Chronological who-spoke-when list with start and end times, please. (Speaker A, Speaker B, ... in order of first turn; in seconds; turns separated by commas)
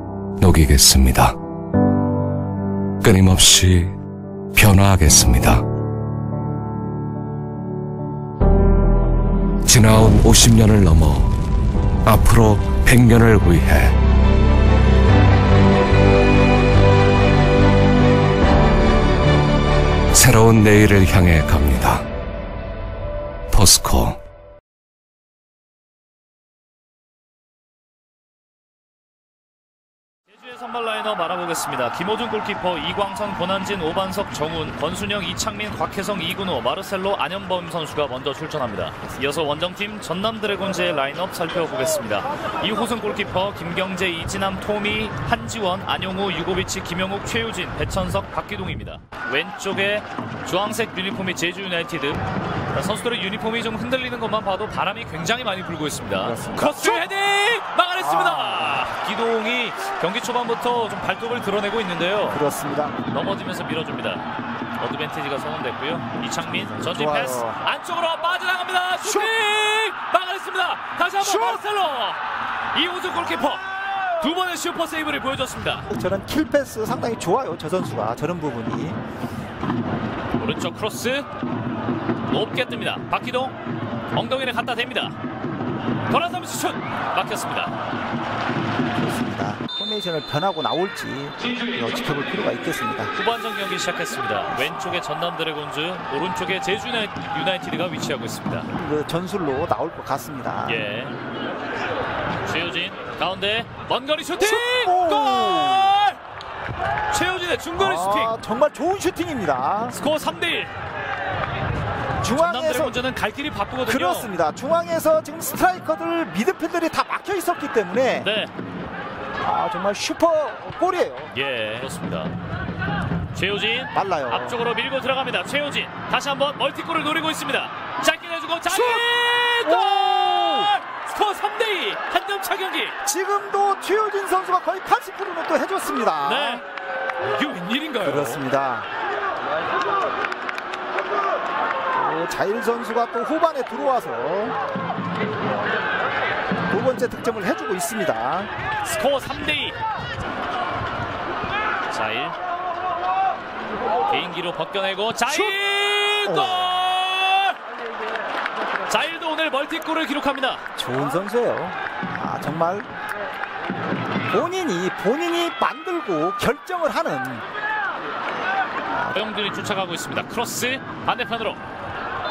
Speaker A: 0.4-1.4, Speaker A: 3.0-3.9, Speaker A: 4.5-5.6, Speaker A: 9.7-11.3, Speaker A: 12.0-14.0, Speaker A: 20.1-22.0, Speaker A: 23.5-24.2, Speaker B: 30.3-62.4, Speaker C: 56.2-57.1, Speaker C: 58.0-58.7, Speaker C: 62.3-63.0, Speaker B: 63.1-64.2, Speaker B: 64.8-72.2, Speaker C: 66.4-67.6, Speaker C: 69.0-69.3, Speaker C: 71.2-71.6, Speaker B: 72.7-75.8, Speaker C: 75.9-79.0, Speaker B: 80.3-81.2, Speaker B: 82.3-83.5, Speaker B: 84.1-85.2, Speaker B: 86.1-87.7, Speaker C: 88.9-93.1, Speaker B: 93.1-98.7, Speaker C: 98.7-100.8, Speaker B: 100.6-101.2, Speaker B: 102.5-106.2, Speaker C: 104.4-105.9, Speaker B: 107.1-108.3, Speaker C: 107.8-110.0, Speaker B: 109.9-110.7, Speaker C: 112.2-113.0, Speaker B: 112.2-114.3, Speaker C: 113.8-118.3, Speaker B: 118.2-118.5, Speaker C: 119.4-121.3, Speaker B: 121.3-122.3, Speaker B: 123.3-132.9, Speaker C: 123.9-124.6, Speaker C: 128.7-130.7, Speaker C: 133.0-136.6, Speaker B: 136.2-136.6, Speaker B: 137.3-138.4, Speaker C: 138.0-138.9, Speaker C: 141.9-144.5, Speaker C: 146.7-148.5, Speaker B: 148.8-149.8, Speaker B: 151.9-152.4, Speaker B: 154.1-157.6, Speaker C: 155.3-155.5, Speaker C: 156.2-156.7, Speaker B: 158.9-160.6, Speaker C: 160.8-162.9, Speaker C: 164.3-167.4, Speaker C: 168.9-169.2, Speaker B: 169.1-171.6